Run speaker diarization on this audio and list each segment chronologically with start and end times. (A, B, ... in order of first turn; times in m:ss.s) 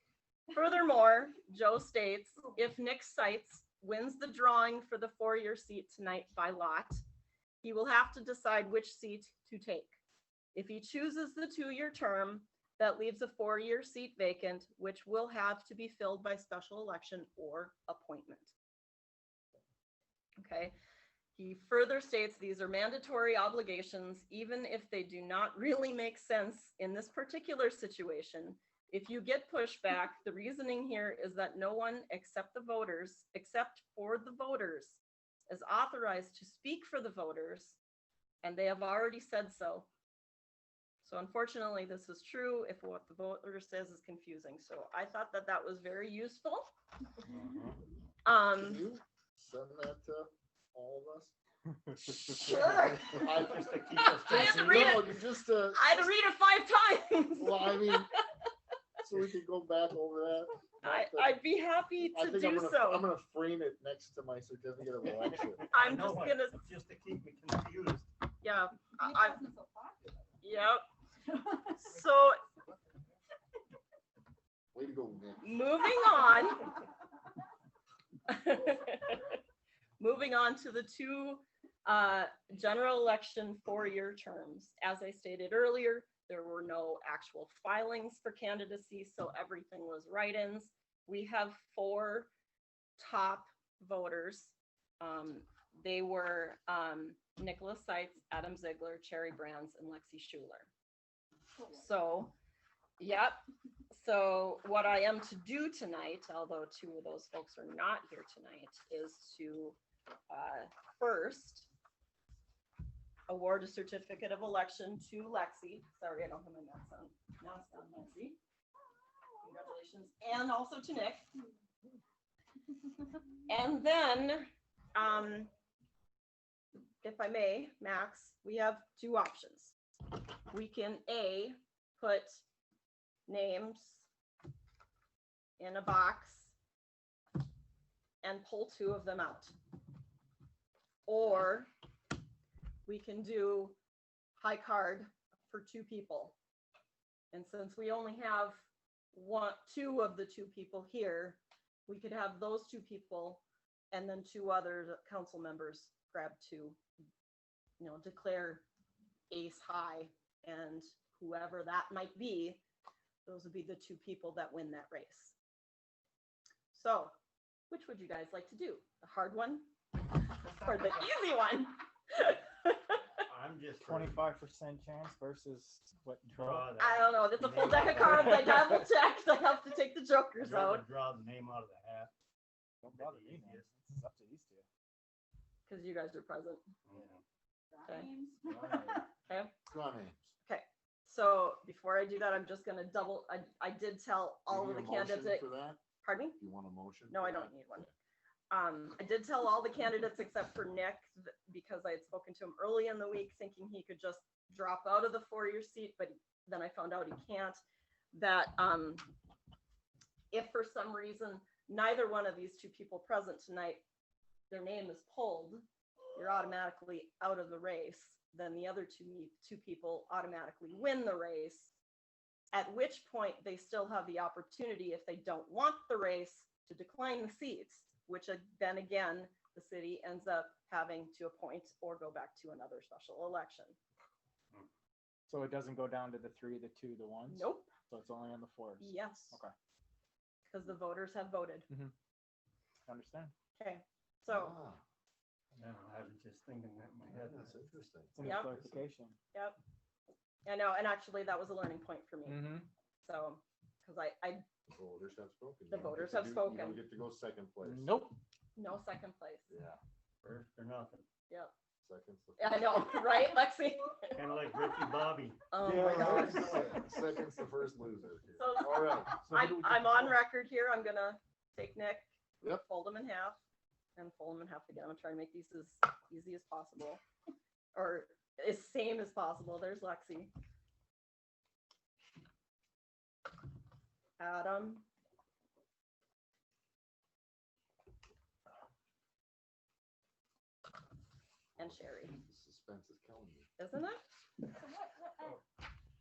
0:00.5-0:07.0 A
0:07.6-0:09.9 A
0:10.5-0:18.5 A
0:20.4-0:20.7 A
0:21.4-0:37.8 A
0:38.4-0:39.9 A
0:41.0-0:46.7 A
0:47.2-0:47.8 B
0:48.2-0:48.9 A
0:48.5-0:51.3 C
0:52.0-0:53.4 A
0:52.5-0:56.0 C
0:53.1-0:55.0 B
0:54.0-0:55.2 A
0:55.7-0:58.3 A
0:57.4-0:58.1 C
0:59.0-1:01.4 C
1:00.8-1:03.1 A
1:02.1-1:05.7 C
1:05.6-1:08.1 B
1:05.7-1:06.6 A
1:08.4-1:09.4 A
1:09.0-1:10.1 D
1:10.4-1:12.4 A
1:14.7-1:15.6 C
1:15.4-1:16.8 A
1:18.3-1:19.4 A
1:20.0-1:32.3 A
1:33.0-1:40.7 A
1:41.7-1:42.3 A
1:43.0-1:49.8 A
1:50.3-1:51.7 A
1:53.3-1:58.4 A
1:59.4-2:01.2 A
2:03.5-2:05.5 A
2:07.0-2:09.7 A
2:10.5-2:12.4 A
2:13.3-2:14.0 A
2:15.6-2:16.5 A
2:18.2-2:19.5 A
2:21.1-2:21.7 A
2:22.8-2:23.8 A
2:24.4-2:26.3 A
2:27.3-2:28.6 A
2:29.1-2:36.8 A
2:37.8-2:38.6 A
2:39.3-2:42.6 A
2:43.2-2:45.3 A
2:46.7-2:47.1 A
2:47.7-2:53.0 A
2:53.2-2:54.2 B
2:53.8-2:56.7 E
2:56.3-2:58.8 B
2:56.8-3:00.8 A
3:00.4-3:02.1 B
3:02.8-3:04.6 E
3:02.9-3:03.6 B
3:05.7-3:06.6 A
3:06.9-3:07.2 B
3:07.7-3:09.0 D
3:08.5-3:09.0 E
3:09.3-3:09.5 A
3:09.7-3:10.3 C
3:10.4-3:15.4 A
3:14.5-3:15.8 C
3:16.0-3:16.4 A
3:16.4-3:17.9 C
3:17.1-3:17.9 A
3:18.5-3:27.6 A
3:28.1-3:29.1 A
3:30.3-3:33.8 A
3:34.5-3:35.6 A
3:36.1-3:41.7 A
3:42.5-3:53.8 A
3:55.3-3:59.5 E
3:57.3-3:57.7 A
3:58.8-3:59.4 A
4:00.5-4:01.6 A
4:01.7-4:01.9 E
4:02.9-4:03.3 E
4:03.6-4:04.6 A
4:04.3-4:04.8 C
4:05.6-4:07.5 B
4:07.1-4:08.8 C
4:08.1-4:09.2 E
4:08.2-4:08.5 A
4:09.3-4:09.6 A
4:10.4-4:14.4 A
4:12.2-4:12.7 E
4:14.7-4:18.0 C
4:15.7-4:16.8 A
4:17.6-4:18.2 E
4:18.6-4:19.4 A
4:19.5-4:19.8 C
4:20.2-4:21.0 B
4:21.8-4:23.0 C
4:22.4-4:24.2 A
4:24.1-4:26.8 B
4:25.5-4:26.6 A
4:25.6-4:26.9 E
4:25.7-4:29.2 C
4:28.4-4:33.4 A
4:29.2-4:30.1 E
4:34.0-4:37.0 A
4:37.7-4:40.3 A
4:44.2-4:44.8 A
4:51.6-4:52.2 A
4:51.6-4:53.5 C
4:53.6-4:54.0 A
4:54.5-4:55.4 D